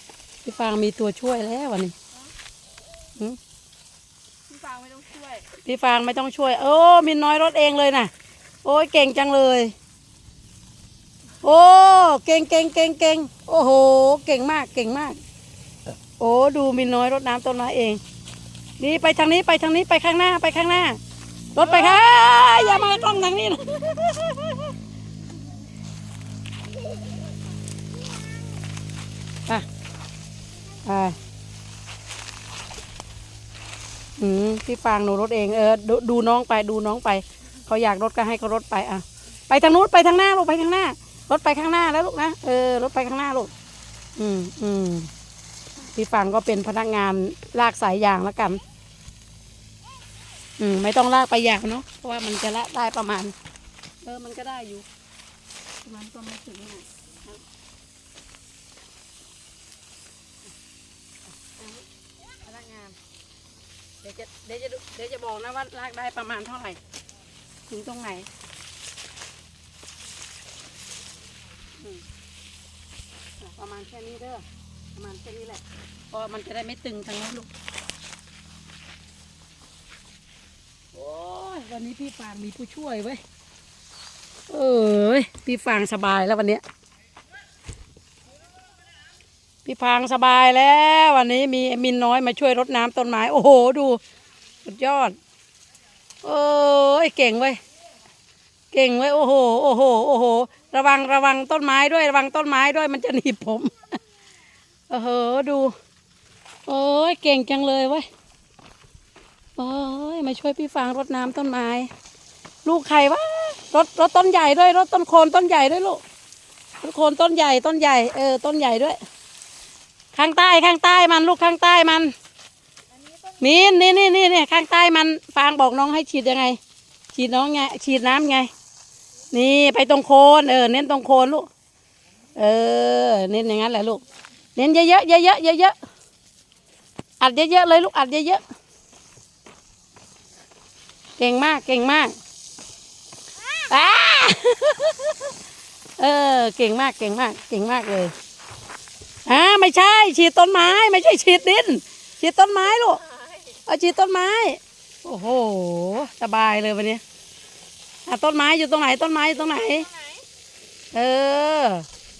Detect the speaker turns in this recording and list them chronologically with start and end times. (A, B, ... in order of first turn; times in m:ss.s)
0:00.4-0:01.9 A
0:04.5-0:05.5 B
0:05.6-0:08.1 A
0:08.6-0:09.7 A
0:11.4-0:15.2 A
0:16.2-0:18.0 A
0:18.8-0:21.0 A
0:21.5-0:24.7 A
0:30.8-0:31.2 A
0:34.2-0:43.5 A
0:44.2-0:45.1 A
0:45.9-0:48.6 A
0:50.6-0:53.3 A
0:54.0-0:54.8 A
0:55.8-0:57.4 A
1:01.4-1:01.8 A
1:02.4-1:03.0 A
1:04.0-1:06.8 A
1:07.7-1:08.3 A
1:11.8-1:12.0 A
1:13.4-1:17.5 A
1:20.9-1:23.2 A
1:24.5-1:26.6 A
1:29.6-1:34.0 A
1:34.6-1:35.2 A
1:36.2-1:37.6 A
1:38.7-1:44.0 A
1:44.9-1:45.8 A
1:46.7-1:48.1 A
1:49.6-1:51.9 A
1:52.6-1:56.0 A
1:56.8-1:59.0 A
2:00.1-2:02.1 A
2:02.9-2:04.1 B
2:03.4-2:06.6 A
2:07.1-2:08.5 A
2:09.3-2:11.5 A
2:12.3-2:14.0 A
2:14.6-2:15.8 A
2:17.2-2:18.4 A
2:21.2-2:22.2 A
2:23.7-2:25.3 A
2:26.0-2:28.1 A
2:29.2-2:33.0 A
2:32.6-2:33.6 B
2:33.7-2:37.0 A
2:38.0-2:39.9 A
2:39.3-2:40.3 B
2:40.9-2:41.9 A